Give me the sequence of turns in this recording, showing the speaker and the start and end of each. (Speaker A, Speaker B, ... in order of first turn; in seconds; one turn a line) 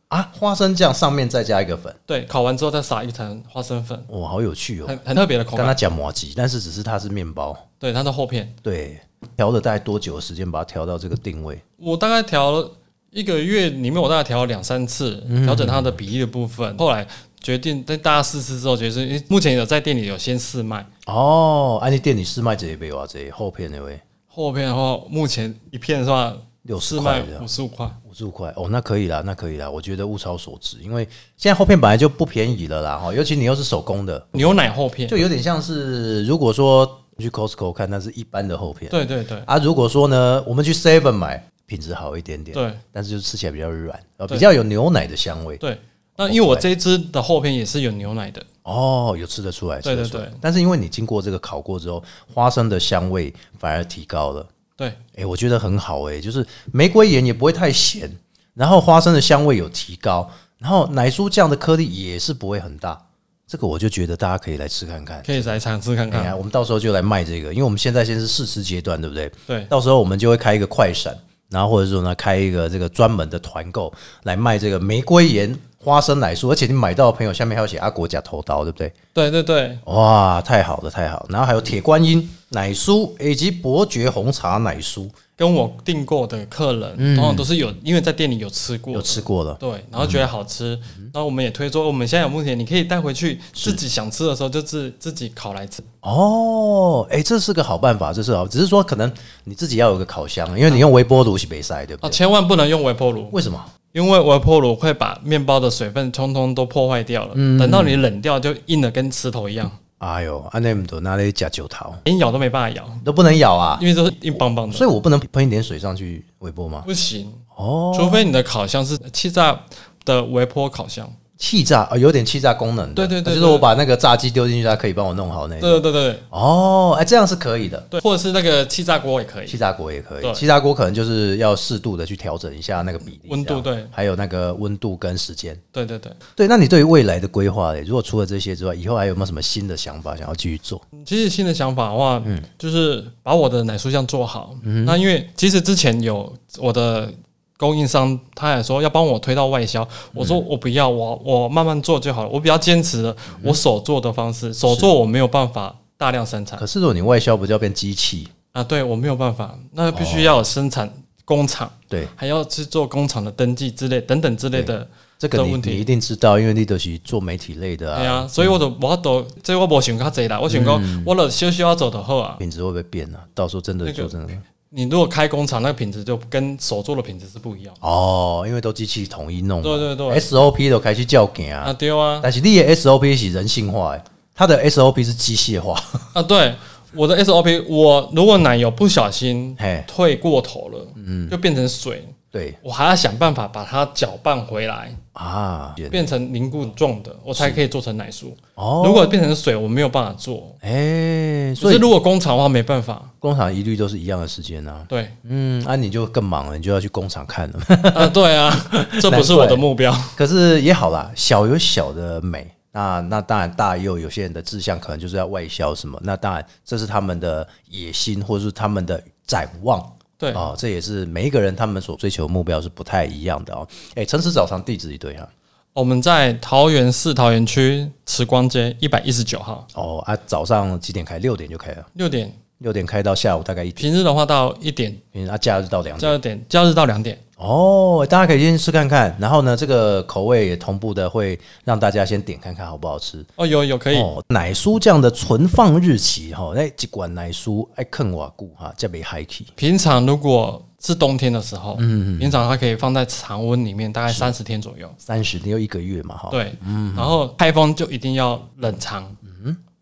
Speaker A: 0.1-2.0
Speaker B: 2.1-4.1
Speaker A: 4.1-5.0
Speaker B: 4.9-5.8
Speaker A: 5.5-7.6
Speaker B: 7.8-8.5
Speaker A: 8.6-11.6
Speaker B: 11.8-20.9
Speaker A: 15.3-16.0
Speaker A: 21.1-24.0
Speaker B: 24.3-28.0
Speaker A: 26.6-27.4
Speaker A: 28.0-45.6
Speaker B: 34.4-35.2
Speaker B: 38.9-39.5
Speaker B: 42.5-42.8
Speaker B: 45.6-48.4
Speaker A: 46.2-46.7
Speaker A: 48.6-54.5
Speaker B: 49.8-50.4
Speaker A: 55.1-65.6
Speaker B: 65.2-66.3
Speaker A: 66.1-78.9
Speaker B: 79.1-79.8
Speaker A: 79.8-85.1
Speaker B: 85.4-95.8
Speaker A: 87.0-87.5
Speaker A: 88.9-90.2
Speaker A: 93.5-93.8
Speaker A: 96.0-102.2
Speaker B: 102.0-103.3
Speaker A: 103.3-103.7
Speaker B: 103.9-109.8
Speaker A: 107.3-108.0
Speaker A: 110.0-112.0
Speaker B: 112.0-113.0
Speaker A: 113.0-116.9
Speaker B: 113.8-114.9
Speaker B: 116.9-117.4
Speaker A: 117.5-118.3
Speaker B: 117.9-121.1
Speaker A: 121.4-127.9
Speaker B: 123.0-123.7
Speaker B: 125.6-126.2
Speaker B: 127.9-129.6
Speaker A: 129.5-135.6
Speaker B: 133.3-133.9
Speaker B: 135.7-136.2
Speaker A: 136.4-140.8
Speaker B: 141.0-156.6
Speaker A: 144.6-145.0
Speaker A: 150.1-150.4
Speaker A: 153.3-153.6
Speaker A: 154.6-154.9
Speaker A: 156.6-158.3
Speaker B: 158.5-165.9
Speaker A: 159.9-160.4
Speaker A: 164.5-168.6
Speaker B: 167.9-172.4
Speaker A: 170.5-171.1
Speaker A: 172.4-174.4
Speaker B: 173.9-174.1
Speaker B: 174.7-177.7
Speaker A: 177.8-186.1
Speaker B: 179.6-180.2
Speaker B: 181.6-182.3
Speaker B: 186.1-192.1
Speaker A: 189.6-189.9
Speaker A: 191.0-191.4
Speaker A: 192.3-192.6
Speaker B: 192.6-195.0
Speaker A: 195.1-196.1
Speaker B: 195.9-200.5
Speaker A: 197.3-197.6
Speaker A: 198.6-199.3
Speaker A: 200.6-201.9
Speaker B: 201.6-203.1
Speaker A: 203.2-208.2
Speaker B: 207.9-210.1
Speaker A: 208.7-225.3
Speaker B: 220.2-220.5
Speaker B: 225.7-229.6
Speaker A: 229.7-231.9
Speaker B: 231.9-232.3
Speaker A: 232.6-233.9
Speaker B: 233.8-235.0
Speaker A: 235.1-236.2
Speaker B: 236.0-237.2
Speaker A: 237.4-243.3
Speaker B: 243.4-244.1
Speaker A: 243.9-249.5
Speaker B: 249.6-254.9
Speaker A: 251.8-252.4
Speaker A: 254.1-254.3
Speaker A: 255.0-257.2
Speaker B: 256.3-259.1
Speaker A: 259.2-259.6